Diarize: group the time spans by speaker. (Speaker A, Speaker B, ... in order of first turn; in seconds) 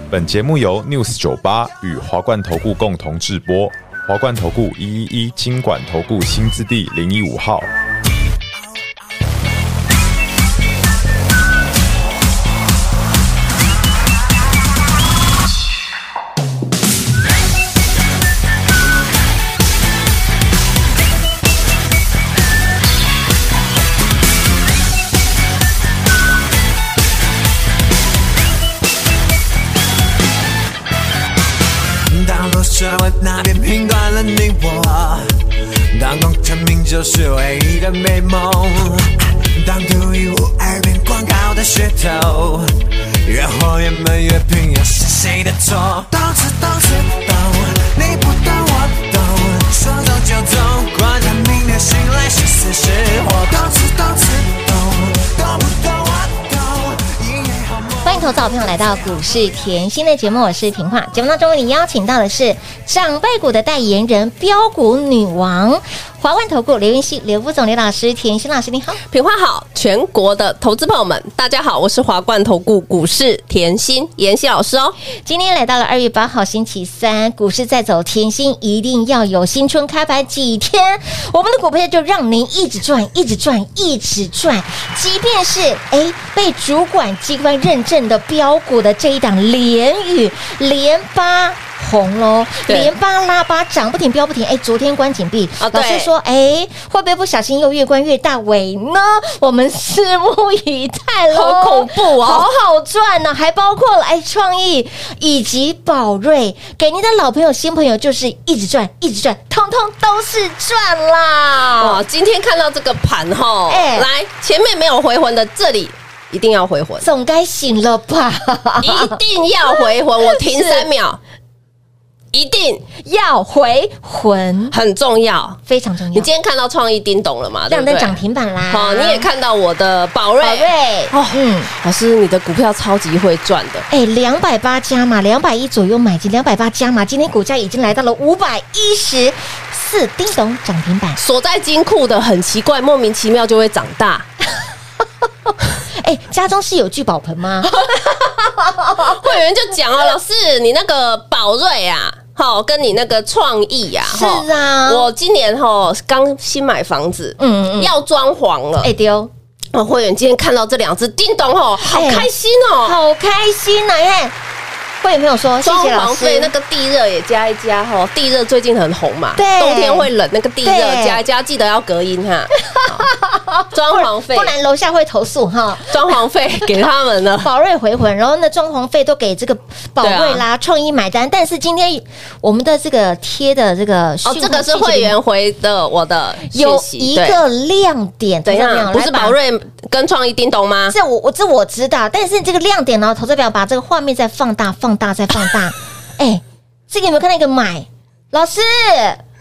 Speaker A: 0.1-7.7
Speaker B: 32.1-58.3
Speaker C: 58.0-69.0, 75.2-112.0, 113.7-114.1, 117.0-119.2, 120.2-120.9, 123.0-124.8, 125.7-126.3, 127.7-129.3, 130.4-131.7, 133.9-141.2, 145.8-149.3, 154.1-155.1, 157.4-157.9, 158.8-159.3, 161.9-162.3, 162.8-164.3, 165.0-166.5, 169.4-170.1, 170.6-171.2, 172.6-176.1, 177.4-185.2, 186.5-189.4, 190.9-199.2
Speaker D: 69.1-75.0, 92.7-92.9, 95.6-96.1, 101.3-102.5, 111.8-117.1, 118.8-121.2, 122.3-122.8, 124.7-125.6, 126.1-128.2, 128.7-133.9, 141.2-144.3, 147.7-148.4, 149.0-158.9, 159.7-163.0, 165.6-173.1, 173.7-174.5, 175.9-177.5, 180.0-180.4, 184.2-187.4, 188.4-190.9